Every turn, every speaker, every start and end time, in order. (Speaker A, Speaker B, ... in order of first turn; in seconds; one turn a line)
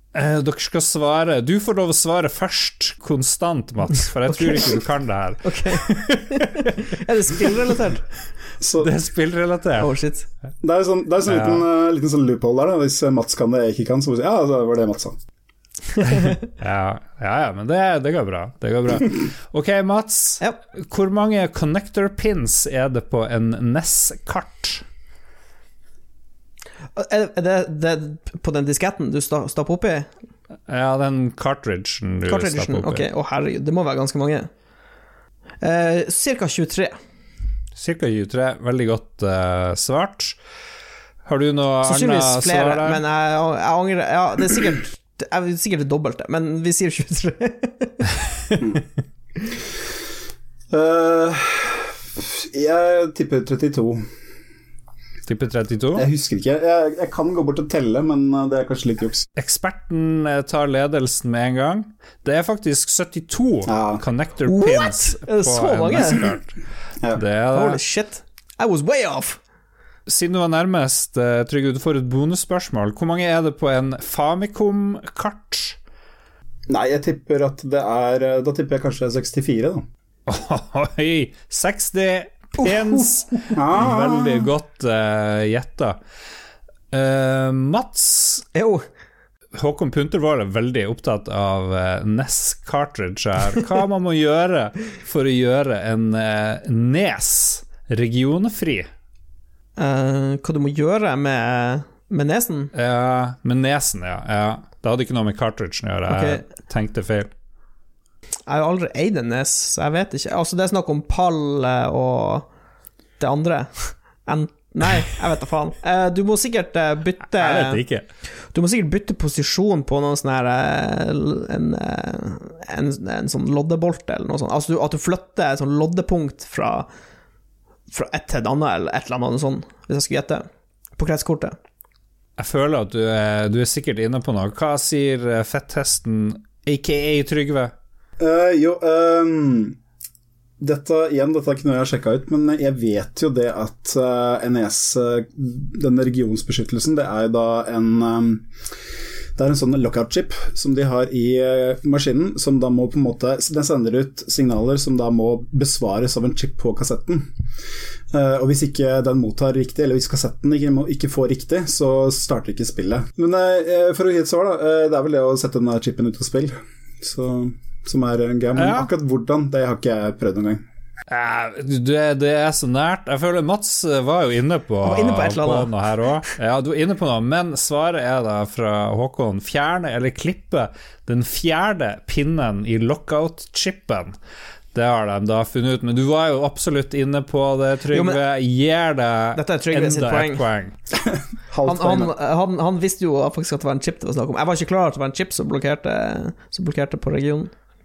Speaker A: 0.1-6.8
Speaker B: 4.3-4.8
Speaker B: 5.4-8.1
Speaker C: 8.6-8.9
Speaker A: 8.8-9.9
Speaker B: 9.8-10.3
Speaker C: 10.6-15.2
Speaker A: 11.3-11.6
Speaker A: 16.6-24.8
Speaker B: 26.9-30.1
Speaker A: 30.7-33.1
Speaker B: 32.3-34.5
Speaker B: 35.6-37.0
Speaker A: 37.8-40.4
Speaker A: 41.2-43.0
Speaker B: 41.8-48.1
Speaker C: 50.7-54.1
Speaker A: 55.3-56.1
Speaker C: 55.9-59.2
Speaker A: 59.4-66.5
Speaker C: 63.7-64.0
Speaker B: 64.5-66.3
Speaker A: 67.1-67.8
Speaker B: 67.5-69.4
Speaker A: 70.1-75.8
Speaker C: 76.7-79.8
Speaker A: 80.3-86.0
Speaker C: 83.5-84.5
Speaker A: 86.9-88.5
Speaker B: 88.5-88.8
Speaker A: 89.5-98.9
Speaker B: 99.8-102.7
Speaker A: 102.7-107.3
Speaker B: 106.1-106.4
Speaker B: 108.5-112.5
Speaker B: 113.2-117.8
Speaker A: 117.3-118.0
Speaker B: 118.5-126.9
Speaker B: 127.9-130.4
Speaker B: 131.0-131.5
Speaker A: 132.4-137.7
Speaker C: 138.2-139.8
Speaker C: 140.6-148.5
Speaker C: 149.3-157.3
Speaker C: 158.1-170.6
Speaker A: 168.6-168.9
Speaker A: 171.1-184.2
Speaker B: 174.8-175.7
Speaker A: 184.7-190.7
Speaker B: 187.9-188.2
Speaker B: 189.3-190.4
Speaker C: 190.9-192.1
Speaker B: 191.6-197.5